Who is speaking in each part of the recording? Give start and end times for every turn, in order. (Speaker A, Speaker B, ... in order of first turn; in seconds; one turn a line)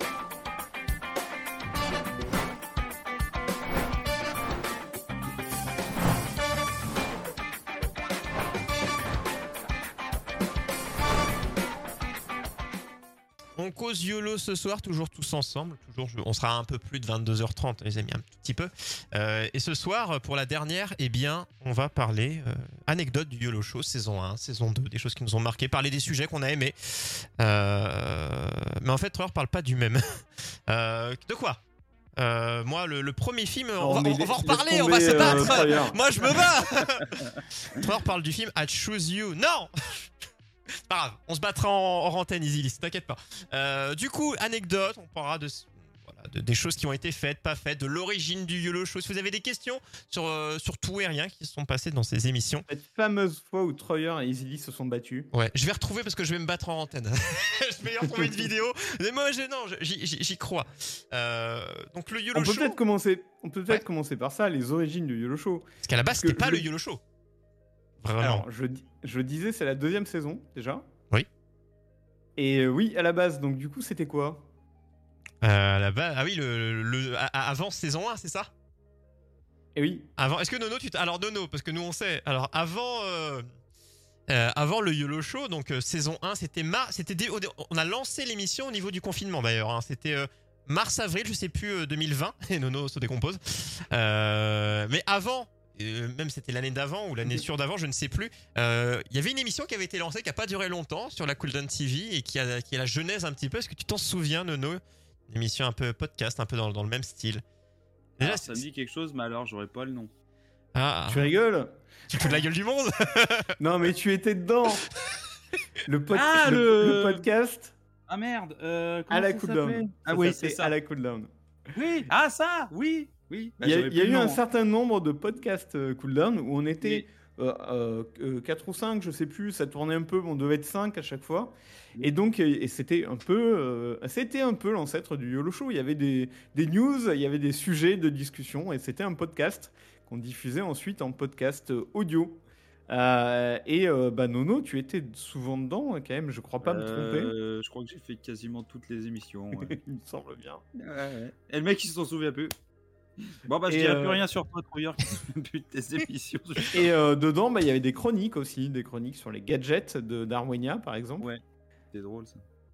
Speaker A: 13.6-31.6
Speaker A: 32.2-40.1
Speaker B: 33.8-36.0
Speaker A: 40.9-52.7
Speaker B: 52.7-55.3
Speaker A: 55.3-62.8
Speaker B: 62.3-65.7
Speaker A: 65.8-67.0
Speaker B: 66.2-66.7
Speaker A: 68.0-68.5
Speaker B: 68.2-70.8
Speaker B: 72.4-74.5
Speaker A: 75.4-78.5
Speaker B: 79.8-80.1
Speaker A: 80.2-83.5
Speaker A: 84.3-107.4
Speaker C: 108.2-110.1
Speaker A: 108.2-108.6
Speaker A: 110.8-111.3
Speaker B: 111.1-112.3
Speaker A: 112.1-113.6
Speaker B: 113.6-114.9
Speaker B: 115.9-117.7
Speaker C: 116.1-117.3
Speaker C: 118.1-120.7
Speaker B: 119.1-121.3
Speaker C: 121.7-124.4
Speaker B: 123.6-147.3
Speaker C: 146.6-149.8
Speaker B: 149.6-150.6
Speaker C: 150.8-152.5
Speaker C: 153.3-156.9
Speaker B: 153.7-154.2
Speaker B: 156.7-161.3
Speaker C: 161.9-162.4